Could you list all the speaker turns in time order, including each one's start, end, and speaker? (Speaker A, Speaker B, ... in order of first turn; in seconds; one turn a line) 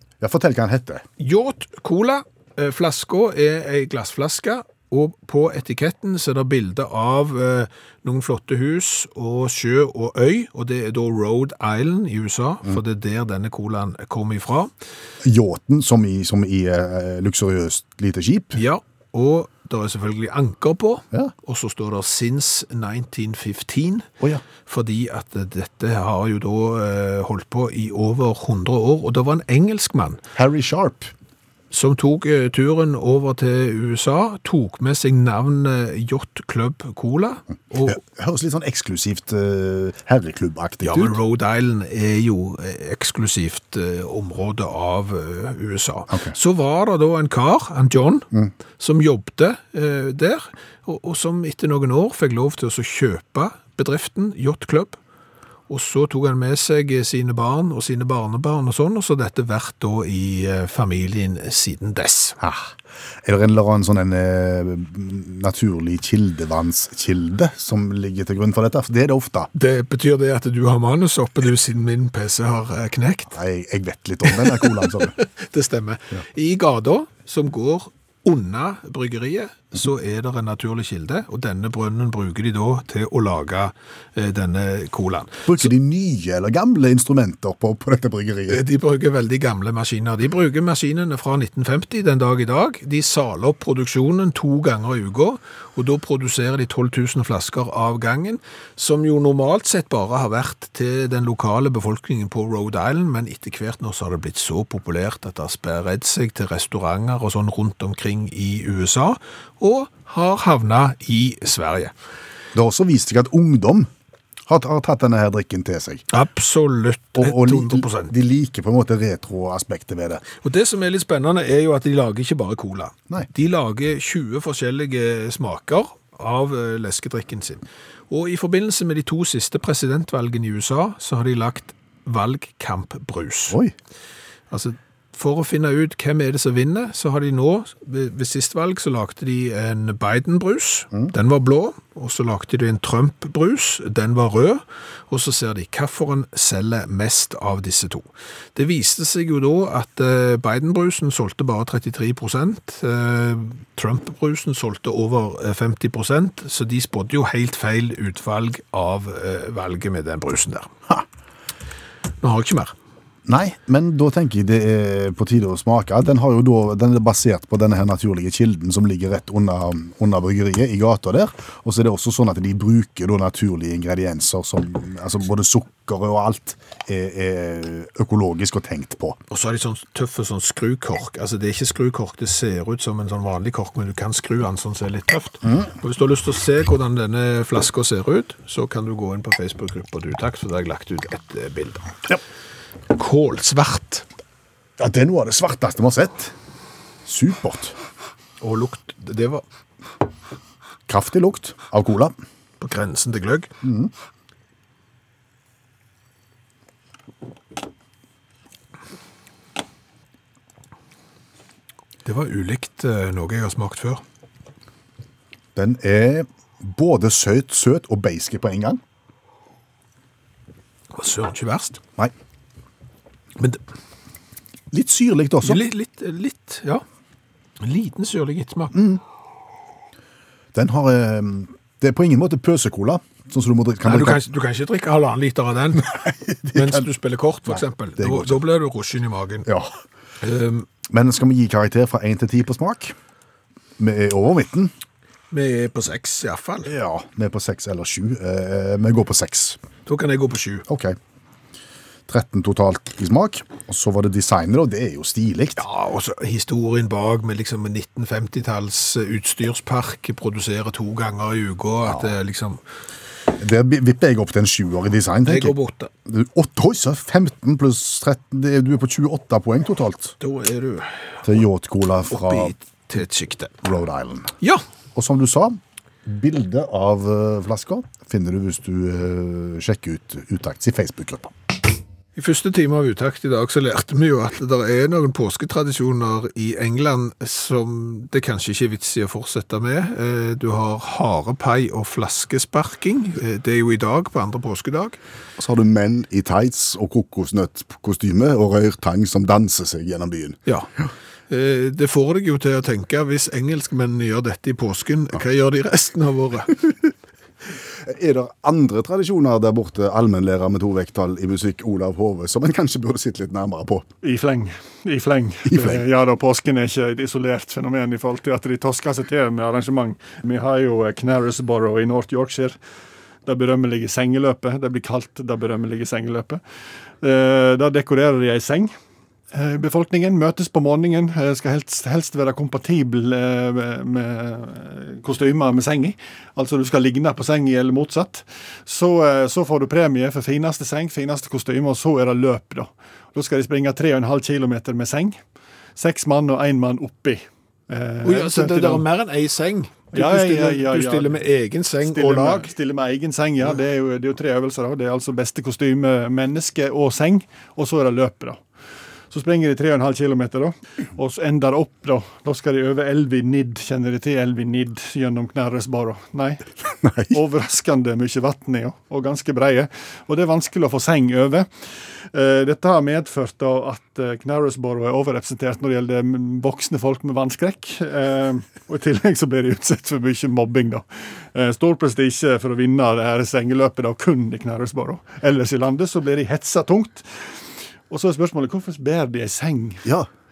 Speaker A: 0.2-1.0
Speaker B: 1.2-14.7
Speaker A: 15.2-18.6
Speaker B: 18.5-24.1
Speaker B: 24.6-30.2
Speaker A: 30.3-31.1
Speaker B: 31.7-38.0
Speaker A: 37.8-41.2
Speaker B: 40.8-55.0
Speaker A: 46.1-46.3
Speaker B: 55.7-62.4
Speaker A: 62.4-69.5
Speaker B: 69.5-73.4
Speaker A: 73.3-75.1
Speaker B: 74.2-85.7
Speaker A: 85.5-88.6
Speaker B: 88.5-111.9
Speaker A: 112.5-113.9
Speaker A: 114.5-116.0
Speaker B: 116.1-118.1
Speaker A: 117.2-120.2
Speaker B: 120.4-133.6
Speaker B: 134.5-160.7
Speaker B: 162.2-162.7
Speaker A: 163.2-179.2
Speaker B: 179.3-192.1
Speaker B: 192.9-194.1
Speaker A: 194.8-196.3
Speaker A: 197.0-197.8
Speaker B: 198.4-199.4
Speaker A: 200.9-202.1
Speaker B: 202.6-203.5
Speaker A: 203.6-203.9
Speaker B: 212.0-214.0
Speaker A: 215.5-218.8
Speaker B: 220.9-221.8
Speaker A: 224.7-225.6
Speaker B: 225.4-226.8
Speaker B: 227.6-228.8
Speaker A: 228.7-229.0
Speaker A: 230.5-234.2
Speaker B: 233.8-235.9
Speaker A: 235.8-236.9
Speaker B: 236.5-239.5
Speaker A: 237.5-238.4
Speaker A: 239.4-239.7
Speaker B: 240.2-240.7
Speaker A: 240.9-242.9
Speaker A: 243.8-244.7
Speaker B: 245.3-246.7
Speaker A: 246.6-249.6
Speaker B: 249.8-250.7
Speaker A: 250.7-251.0
Speaker A: 252.1-255.6
Speaker B: 255.6-262.6
Speaker A: 261.9-262.1
Speaker A: 263.3-270.2
Speaker B: 265.2-265.9
Speaker B: 270.2-271.1
Speaker A: 271.2-272.5
Speaker B: 272.1-273.6
Speaker A: 273.6-274.3
Speaker A: 274.9-281.3
Speaker B: 282.1-295.0
Speaker A: 295.4-300.4
Speaker B: 300.4-300.7
Speaker B: 301.3-306.8
Speaker A: 307.8-313.9
Speaker C: 314.0-322.6
Speaker A: 315.4-315.8
Speaker C: 323.2-326.4
Speaker C: 327.0-328.7
Speaker C: 329.3-345.2
Speaker C: 345.8-348.9
Speaker B: 348.0-352.5
Speaker C: 349.9-351.2
Speaker C: 351.8-358.4
Speaker C: 359.1-366.5
Speaker A: 366.8-367.1
Speaker C: 367.1-371.5
Speaker C: 372.1-387.3
Speaker C: 387.9-389.9